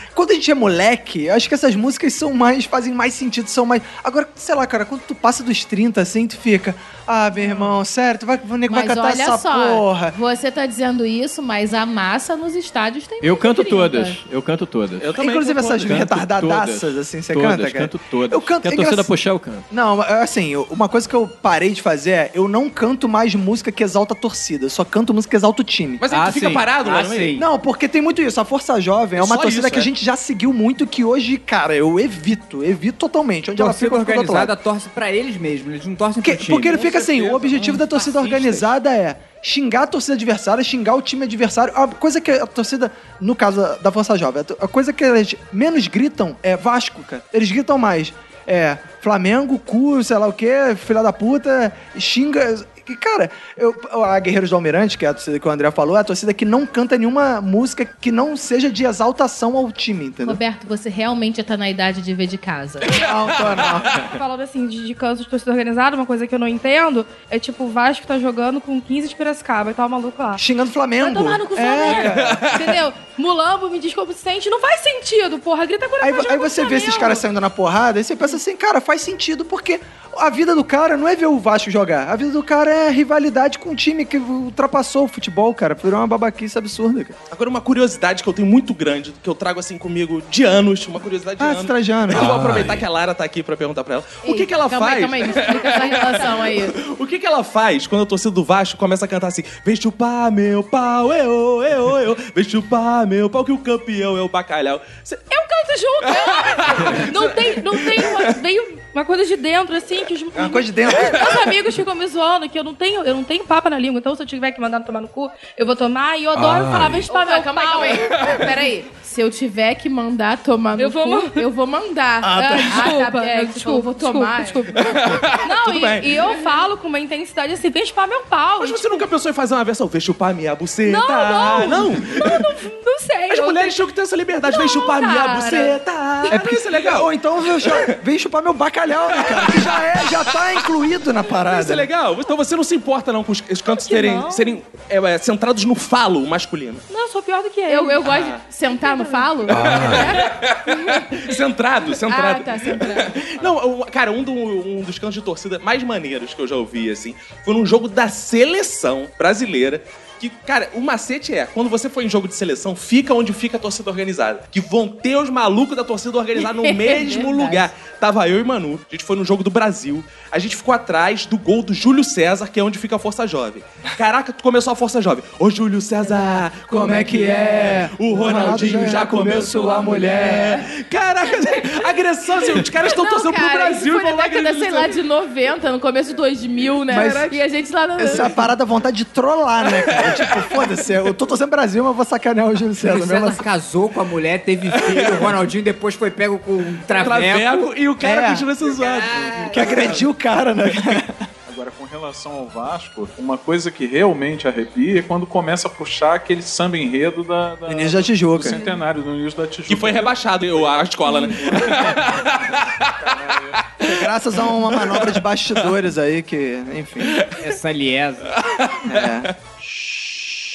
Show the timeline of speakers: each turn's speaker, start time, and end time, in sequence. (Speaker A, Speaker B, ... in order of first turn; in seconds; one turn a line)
Speaker A: 0.1-10.2
Speaker B: 8.7-14.2
Speaker C: 13.2-15.2
Speaker D: 15.0-16.0
Speaker A: 15.2-19.1
Speaker C: 15.8-19.6
Speaker A: 19.7-26.0
Speaker D: 26.0-27.3
Speaker E: 26.1-27.5
Speaker A: 27.4-34.5
Speaker D: 29.1-29.9
Speaker E: 33.5-37.0
Speaker A: 36.2-60.4
Speaker F: 36.8-37.8
Speaker E: 37.5-37.8
Speaker B: 60.2-63.0
Speaker A: 62.8-64.0
Speaker G: 63.9-70.4
Speaker A: 70.3-72.5
Speaker G: 71.1-77.2
Speaker B: 71.1-72.0
Speaker D: 72.0-72.8
Speaker A: 76.0-87.2
Speaker D: 87.3-105.3
Speaker A: 91.4-92.6
Speaker B: 94.2-96.8
Speaker G: 105.3-118.5
Speaker D: 106.0-108.3
Speaker A: 110.3-111.3
Speaker B: 117.0-124.7
Speaker G: 120.8-121.5
Speaker A: 122.2-122.9
Speaker G: 122.3-129.1
Speaker D: 124.8-126.3
Speaker D: 128.6-132.4
Speaker G: 130.8-133.8
Speaker D: 133.3-137.1
Speaker G: 134.4-135.8
Speaker A: 136.3-141.9
Speaker D: 137.6-137.9
Speaker D: 139.2-140.7
Speaker D: 141.4-146.8
Speaker G: 143.7-144.6
Speaker G: 146.9-150.2
Speaker B: 147.7-150.3
Speaker D: 149.5-184.9
Speaker B: 152.0-153.3
Speaker B: 166.4-167.7
Speaker A: 176.7-180.6
Speaker B: 182.8-188.5
Speaker A: 186.9-187.3
Speaker D: 186.9-187.4
Speaker A: 188.0-193.4
Speaker E: 192.8-197.7
Speaker D: 194.8-195.1
Speaker D: 197.0-200.0
Speaker A: 198.0-198.5
Speaker E: 199.1-199.9
Speaker A: 199.5-201.2
Speaker F: 201.5-212.3
Speaker A: 207.7-208.6
Speaker D: 209.7-212.9
Speaker F: 213.0-213.6
Speaker A: 213.8-217.2
Speaker D: 214.5-215.2
Speaker D: 217.0-217.4
Speaker E: 217.3-218.3
Speaker D: 218.4-219.3
Speaker A: 218.9-219.3